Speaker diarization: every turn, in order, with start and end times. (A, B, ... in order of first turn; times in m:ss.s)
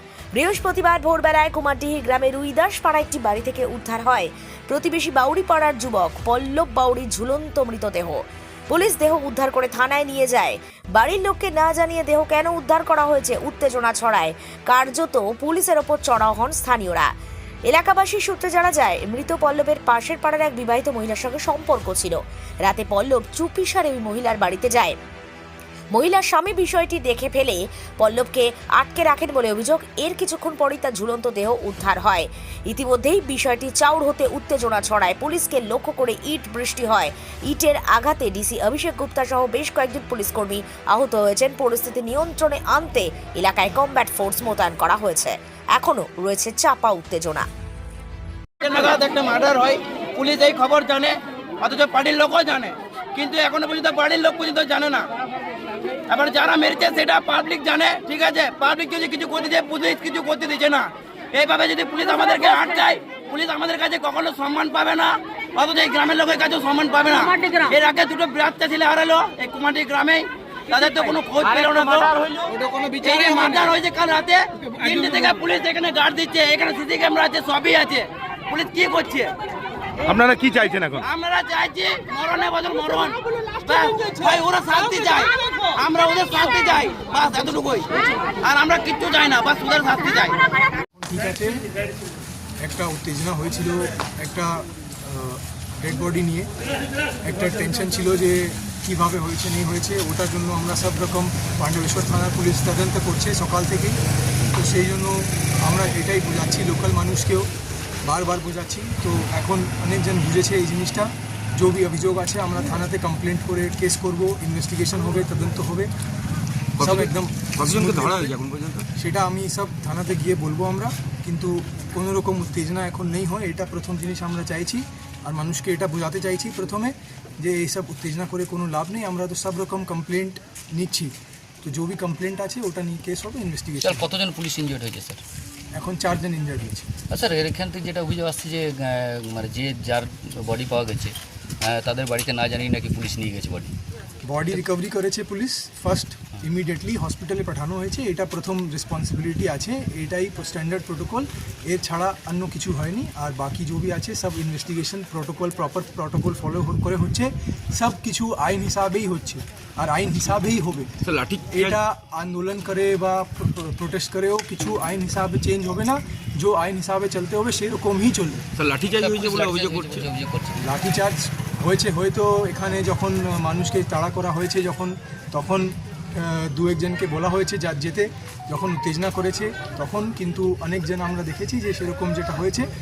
0:00.3-0:17.1 A
0:17.7-0:25.0 A
0:25.9-0:47.4 A
0:48.6-0:55.1 B
0:56.1-1:19.3 B
1:20.9-1:30.4 B
1:31.0-1:31.6 C
1:32.6-1:36.5 C
1:37.2-1:44.0 C
1:44.5-1:47.5 C
1:48.0-1:55.9 C
1:56.8-1:58.3 C
1:56.8-1:58.9 D
1:59.0-2:14.0 C
2:13.8-2:15.2 E
2:15.7-2:16.9 C
2:17.1-2:23.7 E
2:24.2-2:40.9 C
2:41.0-2:41.8 D
2:41.5-2:48.4 C
2:48.6-2:50.0 D
2:49.0-2:50.6 E
2:50.6-3:02.7 C